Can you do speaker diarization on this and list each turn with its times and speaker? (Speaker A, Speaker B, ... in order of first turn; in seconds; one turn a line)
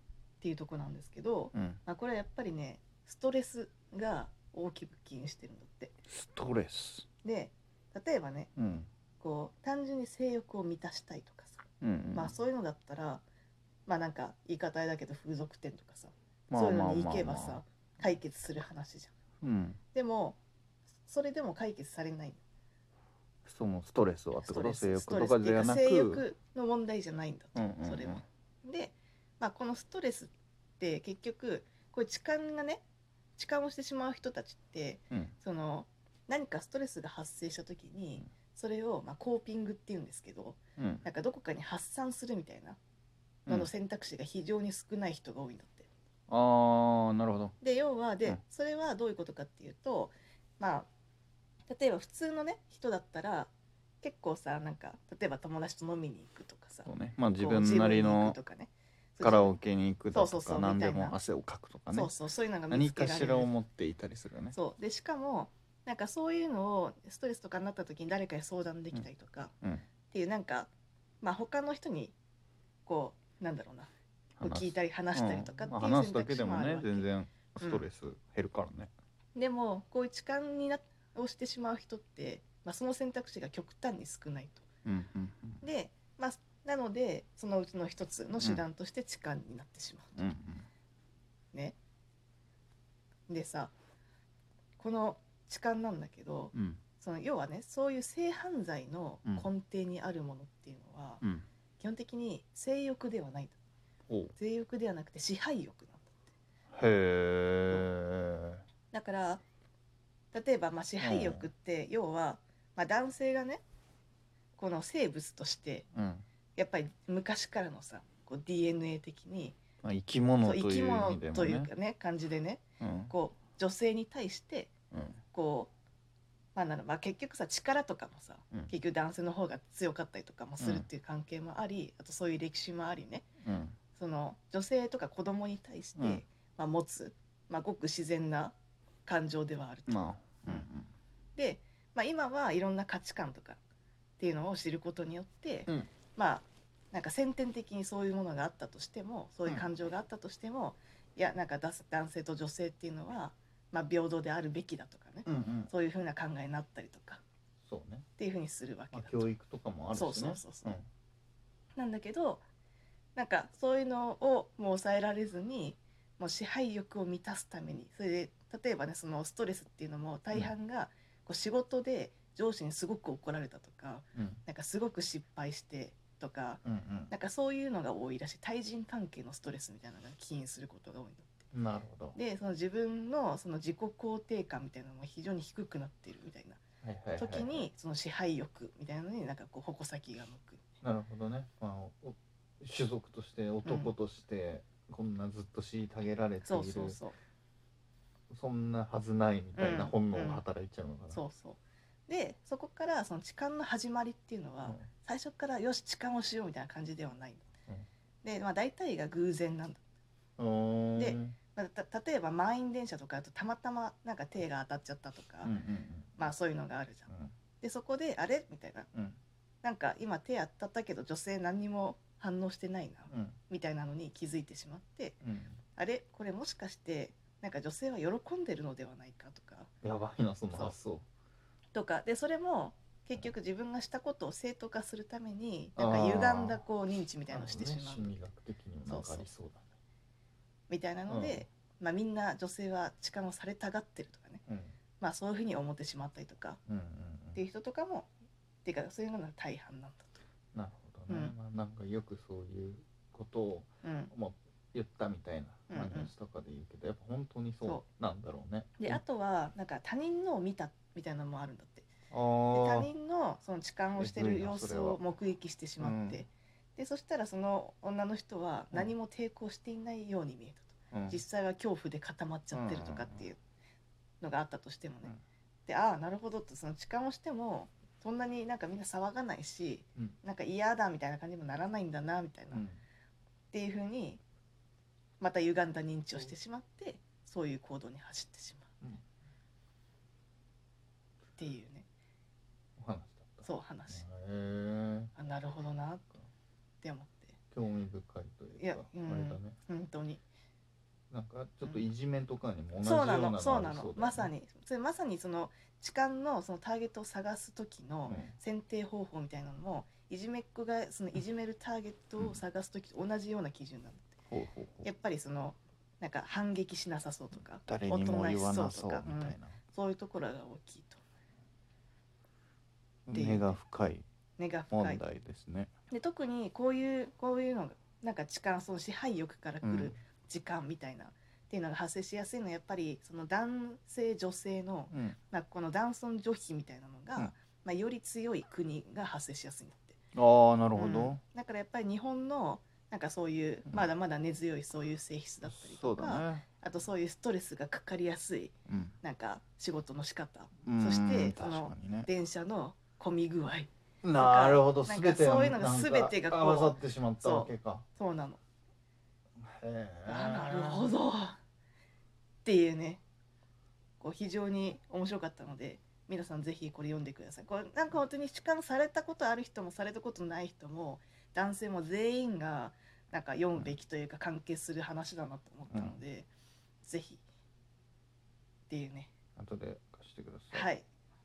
Speaker A: 0.4-6.0
Speaker B: 1.5-1.8
Speaker B: 6.1-7.1
Speaker A: 7.2-8.5
Speaker B: 8.6-8.9
Speaker A: 9.2-13.2
Speaker B: 11.8-12.3
Speaker A: 13.9-19.1
Speaker B: 16.5-17.6
Speaker B: 19.4-19.8
Speaker A: 19.9-20.4
Speaker A: 21.1-22.4
Speaker B: 23.4-26.2
Speaker A: 24.4-32.8
Speaker B: 27.6-28.2
Speaker A: 33.4-42.8
Speaker B: 40.8-41.0
Speaker A: 43.5-45.9
Speaker B: 46.3-47.5
Speaker A: 47.6-50.9
Speaker A: 51.7-59.6
Speaker B: 56.9-58.4
Speaker B: 59.2-62.1
Speaker A: 60.1-61.2
Speaker A: 61.9-63.5
Speaker B: 62.7-64.6
Speaker A: 64.5-69.5
Speaker A: 70.1-70.7
Speaker A: 71.2-72.2
Speaker A: 72.8-73.9
Speaker B: 74.4-78.9
Speaker A: 74.4-77.1
Speaker A: 79.3-84.7
Speaker B: 84.9-85.6
Speaker A: 85.6-90.3
Speaker B: 90.2-90.7
Speaker A: 93.3-93.7
Speaker A: 94.8-101.2
Speaker B: 96.5-96.8
Speaker A: 101.8-103.6
Speaker A: 104.4-106.2
Speaker B: 106.7-108.6
Speaker A: 108.9-109.4
Speaker A: 110.3-113.6
Speaker B: 111.0-111.5
Speaker A: 114.6-115.9
Speaker B: 115.9-116.2
Speaker A: 116.6-119.6
Speaker B: 119.8-121.7
Speaker A: 120.4-124.7
Speaker B: 122.8-123.1
Speaker B: 124.9-125.2
Speaker A: 125.3-125.7
Speaker A: 126.5-133.3
Speaker B: 130.6-130.9
Speaker B: 133.4-133.8
Speaker A: 133.9-138.6
Speaker B: 136.0-136.2
Speaker A: 139.1-140.7
Speaker B: 139.9-140.9
Speaker A: 141.4-143.6
Speaker A: 144.2-157.2
Speaker B: 155.3-155.7
Speaker B: 157.7-158.1
Speaker A: 158.2-159.3
Speaker B: 158.9-160.9
Speaker A: 159.9-160.8
Speaker A: 161.8-162.4
Speaker A: 163.2-181.3
Speaker B: 174.2-174.4
Speaker B: 176.7-177.1
Speaker B: 181.5-182.2
Speaker A: 182.2-186.6
Speaker B: 186.8-187.7
Speaker A: 187.2-190.7
Speaker B: 190.8-197.0
Speaker A: 193.6-193.9
Speaker A: 196.4-197.2
Speaker B: 198.3-201.2
Speaker A: 199.6-200.4
Speaker A: 201.1-207.5
Speaker A: 208.2-209.8
Speaker B: 210.4-211.4
Speaker A: 211.0-215.5
Speaker B: 215.4-216.2
Speaker A: 216.2-217.1
Speaker B: 217.1-217.3
Speaker A: 217.6-218.9
Speaker B: 218.9-219.2
Speaker A: 219.6-225.2
Speaker B: 223.1-223.4
Speaker B: 225.2-225.6
Speaker A: 225.8-229.7
Speaker B: 229.8-231.1
Speaker A: 231.7-238.2
Speaker B: 235.8-236.6
Speaker B: 237.3-239.7
Speaker A: 238.9-239.3
Speaker A: 240.7-244.4
Speaker B: 241.1-241.4
Speaker B: 244.5-244.8
Speaker A: 245.0-246.6
Speaker B: 246.7-247.4
Speaker A: 247.3-248.1
Speaker A: 248.7-250.2
Speaker B: 250.5-259.0
Speaker A: 251.1-251.3
Speaker A: 253.8-254.1
Speaker A: 255.7-256.1
Speaker A: 258.8-261.9
Speaker B: 262.1-262.9
Speaker A: 262.5-273.4
Speaker B: 264.0-265.0
Speaker B: 265.8-266.2
Speaker B: 270.9-271.2
Speaker B: 272.5-273.3
Speaker A: 274.2-275.1
Speaker A: 275.7-282.6
Speaker B: 282.5-282.8
Speaker A: 283.5-284.2
Speaker A: 285.2-288.7
Speaker A: 291.4-291.9
Speaker B: 292.8-295.1
Speaker A: 293.4-294.1
Speaker A: 295.2-296.1
Speaker A: 296.8-297.4
Speaker B: 297.5-299.6
Speaker A: 298.6-300.2
Speaker B: 301.1-304.3
Speaker A: 302.8-314.1
Speaker B: 308.1-308.3
Speaker B: 314.3-314.9
Speaker A: 314.8-321.0
Speaker B: 317.6-319.6
Speaker B: 323.1-324.1
Speaker A: 323.1-323.6
Speaker A: 324.4-325.0
Speaker B: 324.7-325.7
Speaker A: 325.9-340.0
Speaker B: 329.6-329.9
Speaker B: 334.9-335.2
Speaker B: 340.1-341.2
Speaker A: 340.8-358.4
Speaker B: 345.5-346.4
Speaker B: 348.7-349.0
Speaker B: 350.6-352.1
Speaker B: 354.0-357.9
Speaker B: 359.4-360.9
Speaker A: 360.1-361.4
Speaker A: 362.4-363.0
Speaker A: 364.0-376.3
Speaker B: 375.7-376.0
Speaker A: 376.8-377.2
Speaker A: 378.7-379.1
Speaker B: 379.4-380.7
Speaker A: 380.5-380.9